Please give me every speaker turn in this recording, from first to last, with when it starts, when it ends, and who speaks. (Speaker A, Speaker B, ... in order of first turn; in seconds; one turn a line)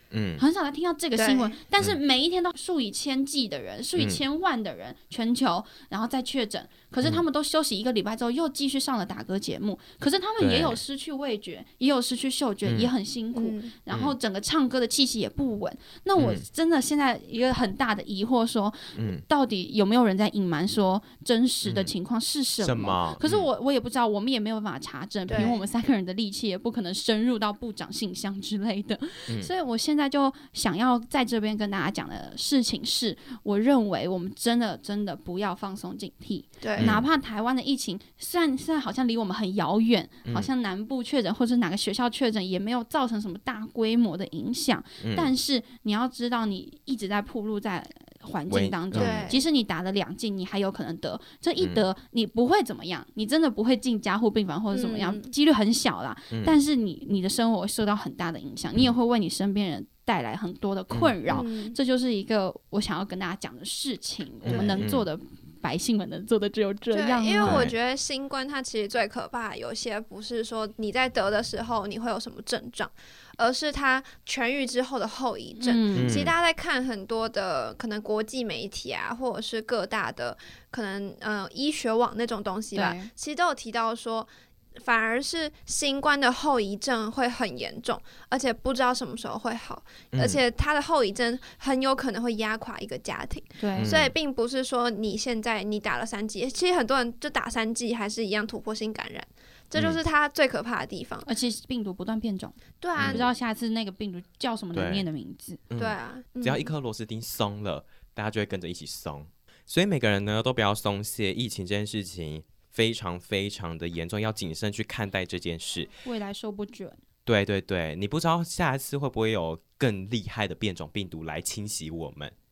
Speaker A: 0.1-0.4
Speaker B: 0.4-67.7
Speaker C: 1.1-1.6
Speaker A: 10.4-10.8
Speaker A: 12.6-12.9
Speaker C: 13.3-13.7
Speaker A: 13.9-14.2
Speaker A: 16.2-16.4
Speaker A: 18.9-19.2
Speaker A: 21.6-21.9
Speaker A: 22.6-23.5
Speaker C: 25.3-25.7
Speaker C: 36.6-36.9
Speaker A: 36.8-37.1
Speaker A: 40.2-40.5
Speaker A: 45.0-45.3
Speaker A: 48.5-49.2
Speaker C: 48.9-49.4
Speaker A: 51.6-51.9
Speaker C: 54.7-55.3
Speaker A: 56.3-56.6
Speaker A: 60.9-61.2
Speaker C: 61.3-61.8
Speaker A: 64.4-65.1
Speaker C: 64.5-64.8
Speaker C: 66.9-101.3
Speaker A: 67.4-67.7
Speaker B: 75.6-76.2
Speaker A: 75.9-76.3
Speaker B: 82.7-83.1
Speaker A: 90.1-90.4
Speaker B: 93.6-93.9
Speaker A: 93.8-94.1
Speaker A: 99.7-100.0
Speaker B: 101.2-105.6
Speaker C: 102.8-103.3
Speaker A: 103.0-103.3
Speaker A: 104.7-105.1
Speaker A: 105.7-115.9
Speaker C: 105.7-106.7
Speaker B: 116.0-117.0
Speaker A: 117.2-122.3